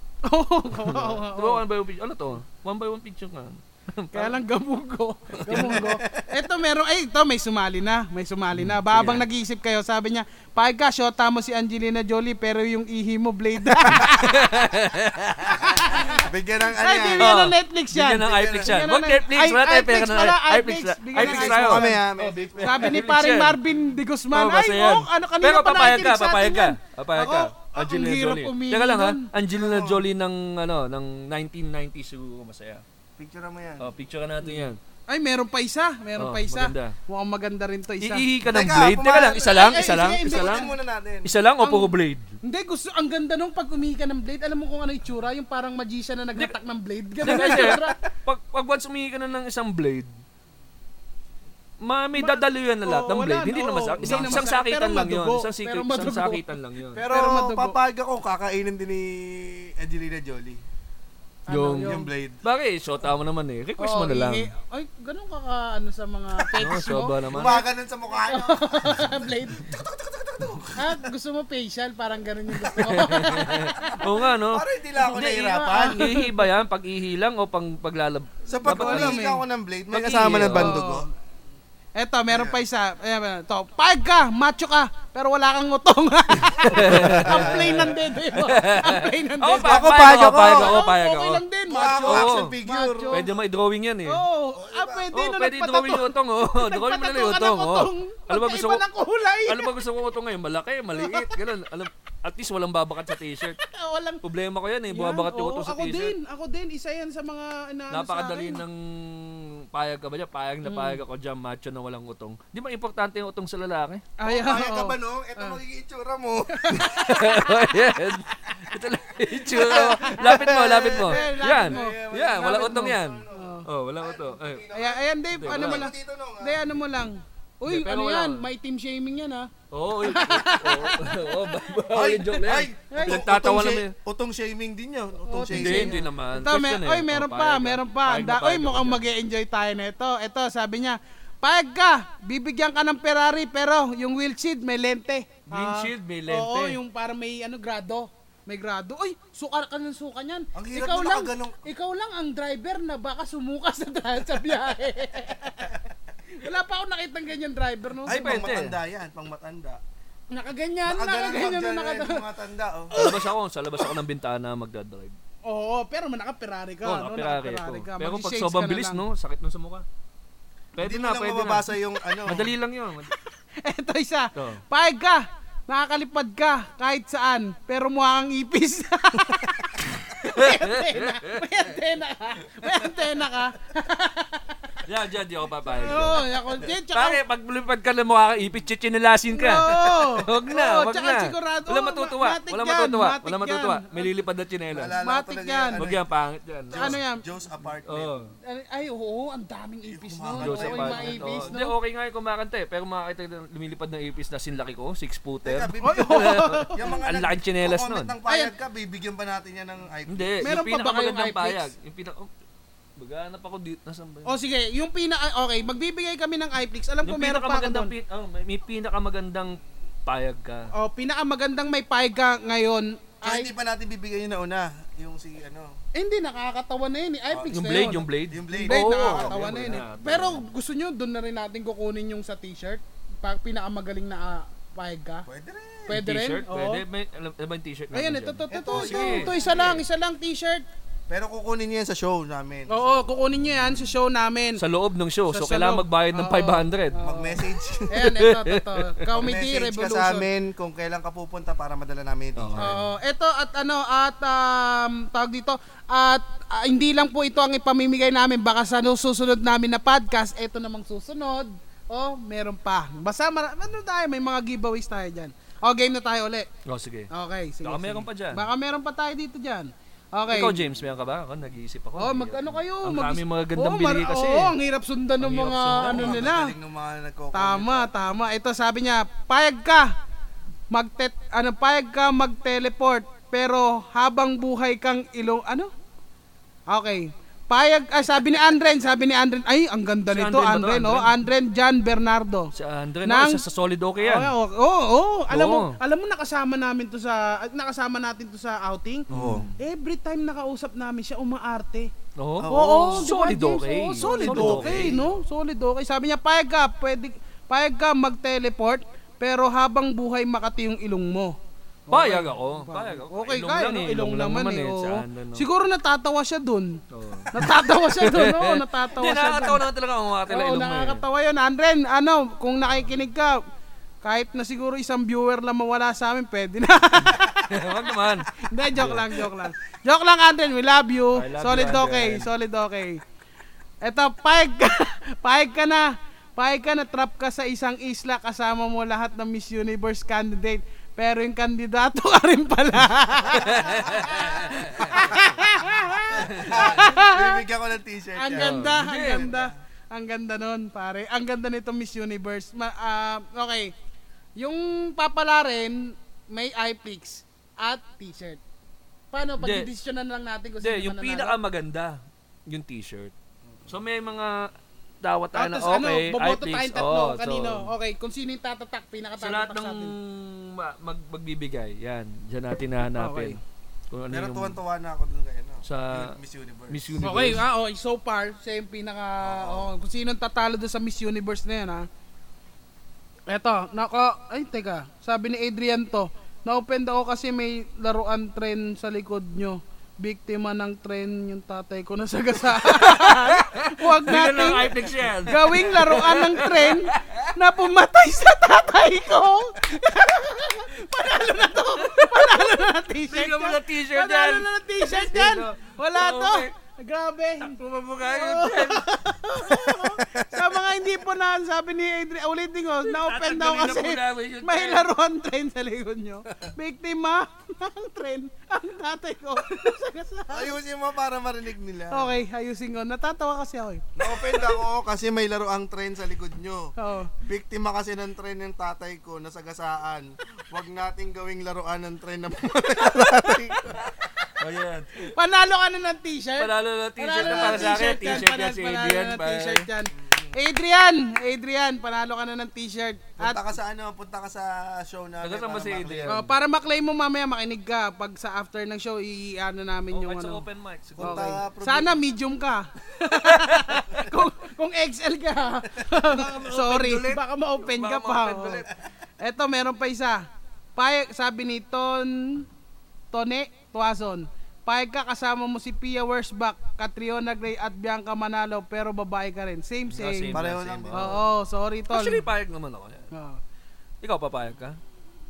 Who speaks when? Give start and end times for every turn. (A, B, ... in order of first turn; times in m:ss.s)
0:00.2-0:01.6 A
0:00.7-0:04.4 B
0:04.1-0:14.4 A
0:05.4-0:05.9 B
0:05.5-0:06.2 C
0:08.5-0:09.2 B
0:14.0-0:15.9 B
0:15.4-0:21.9 A
0:16.2-0:17.3 C
0:17.2-0:23.6 B
0:18.2-0:18.8 C
0:21.2-0:23.2 C
0:22.6-0:29.3 A
0:24.3-0:32.8 B
0:29.5-0:30.0 C
0:33.2-0:33.9 C
0:33.8-0:34.8 B
0:34.4-0:38.2 A
0:36.2-0:37.0 B
0:38.0-0:42.3 B
0:38.4-0:41.3 C
0:39.6-0:40.7 A
0:41.6-0:48.0 A
0:47.2-0:50.1 B
0:47.3-0:47.8 C
0:51.8-0:57.0 B
0:52.2-0:56.4 A
0:54.0-0:54.5 C
0:56.9-1:00.6 C
0:57.0-0:57.8 A
1:01.5-1:02.1 A
1:01.5-1:04.5 B
1:01.8-1:02.4 C
1:03.8-1:07.6 A
1:06.6-1:07.6 B
1:07.3-1:11.0 C
1:08.3-1:09.6 A
1:10.8-1:14.0 A
1:12.8-1:14.6 B
1:13.9-1:16.1 C
1:15.0-1:16.4 A
1:15.2-1:19.2 B
1:18.5-1:21.0 C
1:18.6-1:19.4 A
1:19.9-1:20.8 B
1:20.5-1:21.1 A
1:22.0-1:33.2 A
1:22.3-1:22.6 C
1:26.7-1:27.9 C
1:26.7-1:31.4 B
1:29.6-1:30.9 C
1:31.7-1:33.3 C
1:32.0-1:32.5 B
1:33.1-1:34.2 B
1:34.1-1:39.7 A
1:34.5-1:35.1 C
1:35.1-1:38.8 B
1:39.4-1:43.6 B
1:41.0-1:41.3 A
1:43.6-1:44.2 A
1:44.2-1:46.2 B
1:44.9-1:48.6 A
1:47.9-1:54.0 B
1:50.6-1:51.0 A
1:54.2-1:55.6 A
1:54.2-1:57.6 C
1:56.5-1:57.3 A
1:57.0-2:04.6 B
1:59.4-2:06.6 C
1:59.8-2:03.7 A
2:04.7-2:09.5 A
2:05.3-2:05.9 B
2:07.6-2:08.4 B
2:09.7-2:13.9 B
2:10.0-2:11.2 A
2:11.9-2:16.1 C
2:12.9-2:13.2 A
2:15.3-2:35.7 A
2:15.5-2:19.0 B
2:25.5-2:26.8 B
2:30.5-2:31.6 C
2:36.4-2:38.2 A
2:38.0-2:39.8 C
2:38.1-2:38.8 B
2:40.3-2:42.2 A
2:40.8-2:42.9 C
2:42.9-2:43.2 A
2:42.9-2:45.2 B
2:45.5-2:49.0 A
2:46.8-2:49.8 B
2:50.8-2:51.7 B
2:50.8-2:52.5 C
2:52.2-2:53.1 B
2:53.6-3:04.8 A
2:54.3-2:54.6 B
3:00.2-3:01.4 B
3:04.8-3:14.9 B
3:05.8-3:07.2 A
3:05.9-3:06.2 C
3:09.3-3:14.1 A
3:14.7-3:16.1 C
3:15.0-3:15.8 A
3:15.8-3:17.0 B
3:16.7-3:18.2 C
3:16.7-3:17.2 A
3:17.8-3:18.3 B
3:18.5-3:21.7 A
3:19.8-3:21.5 C
3:20.4-3:28.1 B
3:25.4-3:30.5 C
3:25.8-3:27.0 A
3:30.1-3:32.3 B
3:30.4-3:31.7 A
3:33.0-3:34.3 B
3:34.3-3:37.9 A
3:37.0-3:40.7 B
3:40.8-3:43.5 A
3:43.2-3:45.7 C
3:46.0-3:55.2 A
3:47.3-3:49.8 C
3:47.5-3:50.4 B
3:55.2-3:56.0 C
3:55.9-3:56.8 A
3:55.9-3:59.3 B
3:57.9-4:00.6 A
3:58.5-3:59.8 C
4:01.1-4:03.1 C
4:02.7-4:04.6 A
4:04.6-4:07.0 B
4:05.3-4:10.2 A
4:07.0-4:08.0 C
4:08.0-4:08.9 B
4:09.1-4:12.7 C
4:12.4-4:12.8 B
4:12.6-4:26.5 A
4:26.6-4:27.1 B
4:27.1-4:30.6 A
4:27.6-4:28.5 B
4:30.3-4:34.5 B
4:32.0-4:36.5 A
4:35.2-4:36.3 B
4:35.8-4:37.9 C
4:37.3-4:39.9 A
4:40.7-4:45.7 A
4:46.7-4:52.5 A
4:50.1-4:51.1 B
4:52.5-4:54.3 B
4:53.0-4:53.4 A
4:54.0-4:59.1 A
4:55.3-4:55.8 B
4:59.1-4:59.5 C
4:59.1-4:59.5 B
4:59.6-5:01.9 A
5:02.2-5:05.0 B
5:02.4-5:03.1 C
5:02.5-5:11.4 A
5:04.0-5:05.0 C
5:11.9-5:16.8 A
5:11.9-5:15.5 B
5:16.9-5:21.0 B
5:17.3-5:19.6 A
5:20.3-5:23.4 A
5:24.0-5:27.5 A
5:27.0-5:29.2 B
5:28.3-5:33.0 A
5:31.1-5:32.3 B
5:33.8-5:47.4 A
5:43.4-5:45.2 B
5:43.9-5:44.2 C
5:46.1-5:49.5 C
5:46.2-5:46.8 B
5:48.2-5:53.7 A
5:48.4-5:49.3 B
5:54.4-5:58.4 A
5:59.1-6:01.4 A
5:59.4-5:59.7 B
6:00.6-6:03.1 B
6:03.7-6:04.5 B
6:05.0-6:07.7 B
6:05.3-6:09.9 A
6:09.2-6:13.4 B
6:12.9-6:13.4 A
6:13.9-6:14.6 B
6:14.1-6:16.9 C
6:15.6-6:16.2 B
6:16.7-6:17.4 B
6:17.0-6:21.8 A
6:19.2-6:19.7 C
6:23.3-7:00.5 A
6:32.5-6:37.3 B
6:42.0-6:42.2 B
6:43.1-6:46.5 B
6:47.4-6:48.9 B
6:50.0-6:50.5 C
6:52.8-6:54.9 B
7:00.3-7:02.2 C
7:01.9-7:04.6 A
7:04.0-7:13.9 C
7:06.8-7:07.1 A
7:14.4-7:15.1 B
7:15.1-7:23.4 A
7:16.4-7:19.7 B
7:17.2-7:18.0 C
7:19.9-7:20.4 C
7:23.2-7:26.2 C
7:25.2-7:26.3 B
7:26.1-7:30.4 A
7:29.9-7:31.4 B
7:31.0-7:32.0 C
7:31.0-7:38.6 A
7:33.2-7:33.8 B
7:35.9-7:38.7 B
7:39.2-7:40.2 A
7:40.8-7:42.4 A
7:43.1-7:50.3 A
7:49.9-7:51.2 B
7:50.3-7:51.2 C
7:50.9-7:52.2 A
7:51.9-7:53.1 B
7:53.1-7:53.4 A
7:54.0-7:54.8 B